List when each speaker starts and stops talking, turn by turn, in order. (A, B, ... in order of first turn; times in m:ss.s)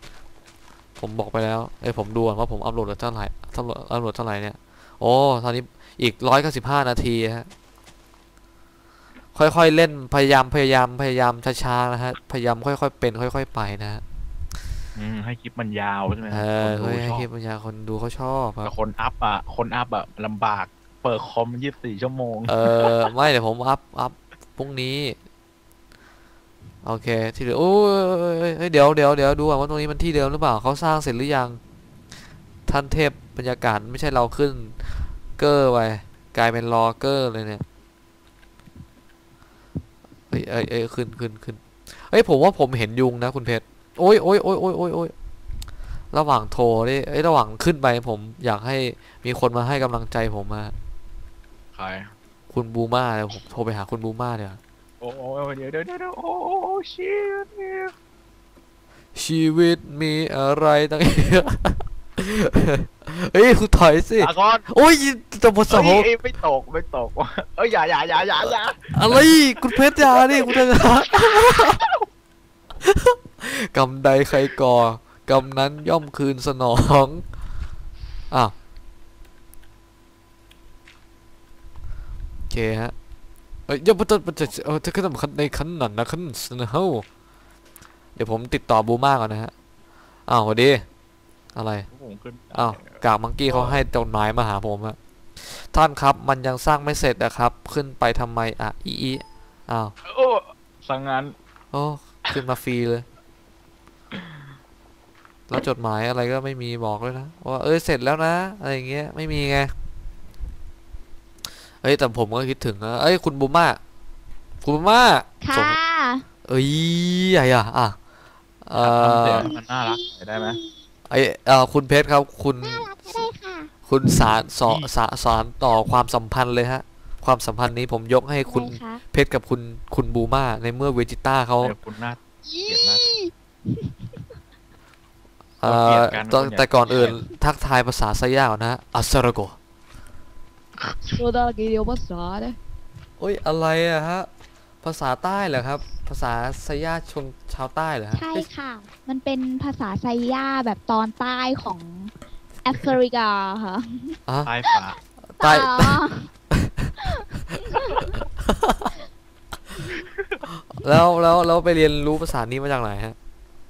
0:01.0-0:07.5 A
0:09.3-0:14.0 A
0:15.0-0:17.2 B
0:16.3-0:18.7 A
0:18.6-0:22.9 B
0:22.4-0:25.2 A
0:26.8-0:31.6 A
0:32.6-0:37.6 A
0:40.3-0:45.1 A
0:46.1-0:50.7 A
0:51.7-0:52.1 B
0:52.5-0:54.6 A
0:55.0-0:57.9 B
0:59.1-1:06.1 A
1:04.2-1:04.6 B
1:05.7-1:10.6 B
1:08.9-1:11.8 A
1:11.2-1:11.9 B
1:12.8-1:17.2 A
1:22.5-1:22.9 A
1:23.7-1:27.0 A
1:28.2-1:29.5 A
1:30.3-1:30.8 A
1:31.5-1:31.9 A
1:31.9-1:33.8 B
1:32.5-1:39.9 A
1:40.0-1:41.3 B
1:41.7-1:43.0 A
1:44.1-1:44.4 B
1:45.5-1:49.7 A
1:51.8-1:53.8 A
1:54.6-1:55.8 A
1:55.4-1:56.2 C
1:56.4-1:58.0 A
1:58.6-1:59.5 A
1:58.8-2:00.6 B
1:59.4-2:00.8 C
2:01.1-2:02.8 A
2:02.6-2:03.7 C
2:03.9-2:11.7 A
2:04.3-2:04.9 B
2:08.5-2:09.0 C
2:11.6-2:13.0 B
2:12.4-2:14.2 C
2:15.6-2:19.6 A
2:15.6-2:17.2 B
2:20.9-2:21.2 B
2:21.1-2:22.6 C
2:23.2-2:24.3 A
2:24.8-2:28.2 A
2:28.1-2:34.2 C
2:34.3-2:34.5 A
2:34.4-2:35.0 B
2:35.3-2:36.0 A
2:35.4-2:36.3 C
2:36.5-2:36.9 A
2:37.0-2:38.1 C
2:38.4-2:38.9 A
2:40.7-2:43.2 A